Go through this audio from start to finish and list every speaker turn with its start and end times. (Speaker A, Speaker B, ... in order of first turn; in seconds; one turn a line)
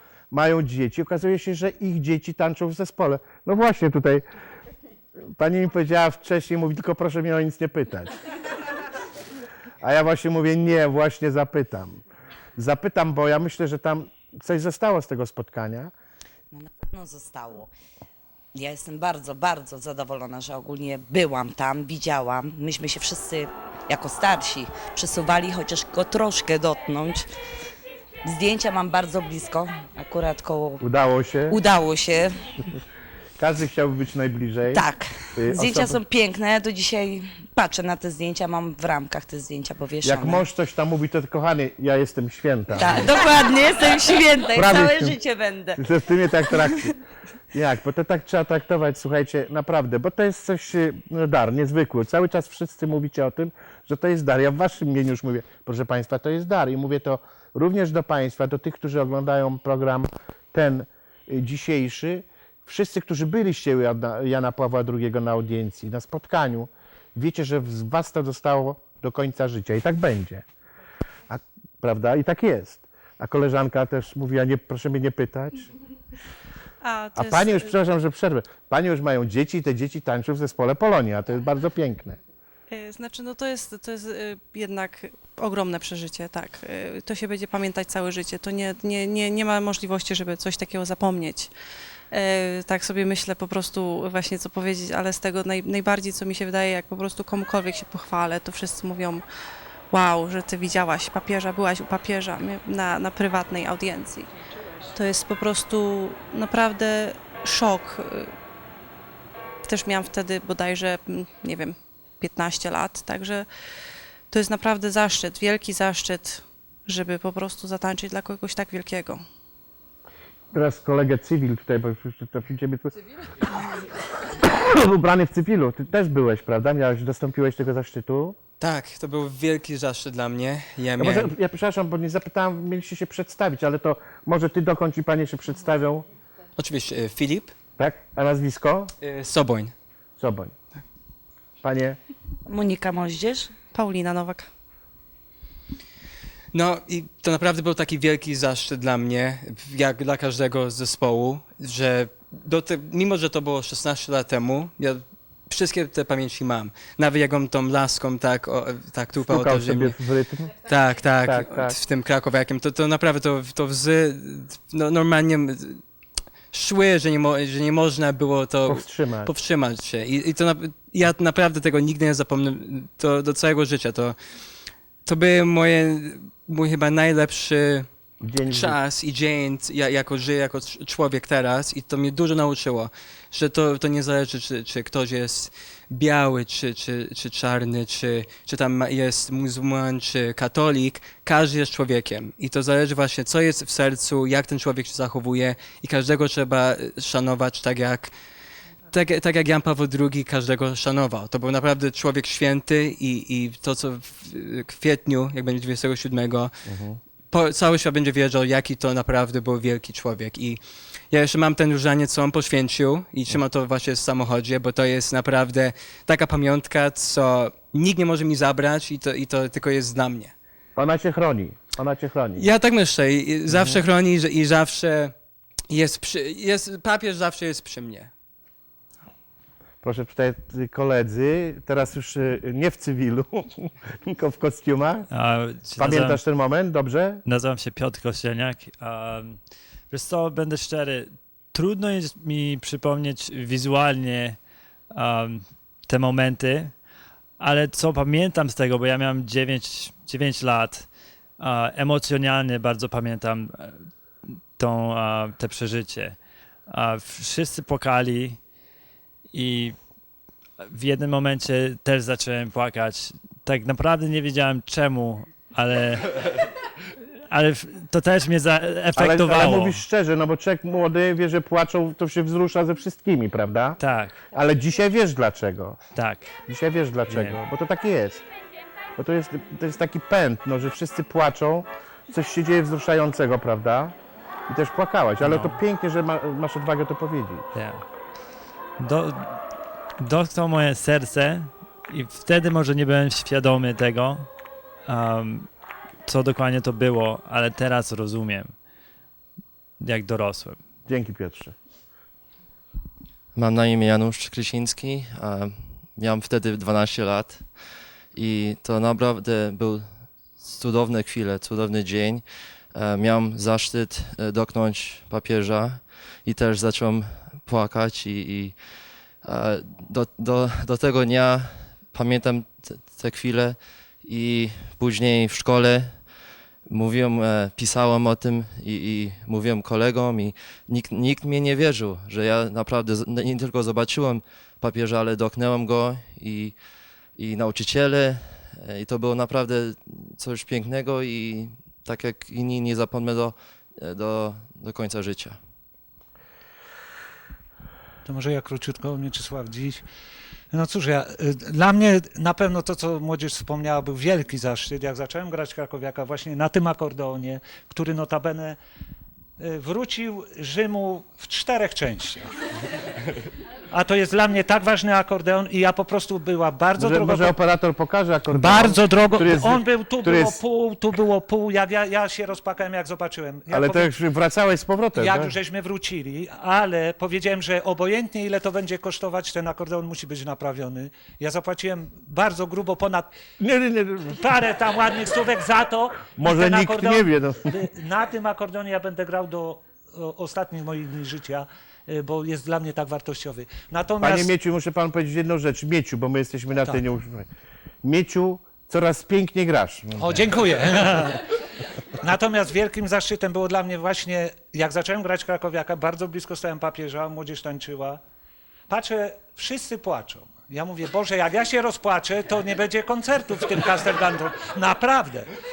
Speaker A: 0.3-4.2
Speaker A: 5.3-8.2
Speaker A: 9.8-12.0
Speaker A: 12.6-15.9
Speaker B: 16.5-17.7
Speaker B: 18.5-27.3
Speaker B: 28.2-30.8
Speaker A: 30.8-31.6
Speaker B: 31.5-32.5
Speaker A: 33.4-36.0
Speaker B: 34.7-40.4
Speaker A: 40.0-43.2
Speaker B: 42.8-45.8
Speaker A: 44.5-45.2
Speaker A: 45.8-47.0
Speaker B: 46.4-46.9
Speaker A: 47.5-70.4
Speaker A: 71.3-75.7
Speaker C: 76.8-77.8
Speaker A: 77.2-82.2
Speaker C: 82.7-91.5
Speaker C: 92.1-99.2
Speaker C: 99.9-104.3
Speaker C: 104.9-108.3
Speaker C: 109.7-113.5
Speaker C: 114.3-119.2
Speaker A: 120.5-128.3
Speaker D: 128.6-131.3
Speaker A: 131.0-136.0
Speaker D: 136.6-137.5
Speaker A: 137.8-138.9
Speaker D: 139.0-139.7
Speaker A: 140.2-140.5
Speaker A: 141.6-142.0
Speaker B: 142.4-143.5
Speaker C: 143.7-144.5
Speaker D: 146.5-159.9
Speaker A: 159.2-161.7
Speaker D: 160.6-165.8
Speaker D: 166.5-174.2
Speaker A: 168.7-169.3
Speaker D: 175.1-177.9
Speaker A: 178.2-178.8
Speaker D: 178.4-198.2
Speaker D: 198.9-206.6
Speaker A: 206.7-207.0
Speaker D: 207.3-210.6
Speaker D: 211.1-220.3
Speaker A: 220.8-222.5
Speaker D: 222.3-225.1
Speaker A: 223.5-223.8
Speaker D: 225.7-228.1
Speaker A: 229.8-235.1
Speaker E: 235.1-236.2
Speaker A: 235.8-237.2
Speaker E: 237.3-244.4
Speaker E: 244.9-246.8
Speaker E: 247.4-258.4
Speaker E: 259.3-259.8
Speaker E: 260.6-266.3
Speaker E: 267.3-269.8
Speaker A: 268.9-273.8
Speaker E: 273.8-274.2
Speaker A: 274.3-275.8
Speaker E: 275.9-276.3
Speaker A: 276.5-278.2
Speaker E: 277.1-277.4
Speaker A: 278.9-283.9
Speaker A: 284.5-287.5
Speaker E: 285.2-285.6
Speaker E: 287.6-287.8
Speaker E: 288.8-289.4
Speaker E: 290.0-294.3
Speaker E: 294.9-295.5
Speaker E: 296.1-298.5
Speaker E: 299.8-300.6
Speaker A: 300.9-301.6
Speaker F: 303.3-307.6
Speaker F: 308.1-318.6
Speaker F: 319.2-326.1
Speaker F: 326.7-336.6
Speaker F: 337.2-345.4
Speaker G: 348.1-349.8
Speaker G: 350.5-358.6
Speaker G: 359.4-362.3
Speaker G: 363.7-367.3
Speaker A: 366.8-370.4
Speaker G: 368.3-373.9
Speaker A: 373.5-375.3
Speaker G: 375.0-383.1
Speaker A: 383.4-384.2
Speaker G: 384.1-394.3
Speaker A: 386.2-387.6
Speaker A: 394.0-397.3
Speaker A: 397.8-400.3
Speaker G: 400.0-401.3
Speaker G: 402.0-408.0
Speaker G: 408.7-415.3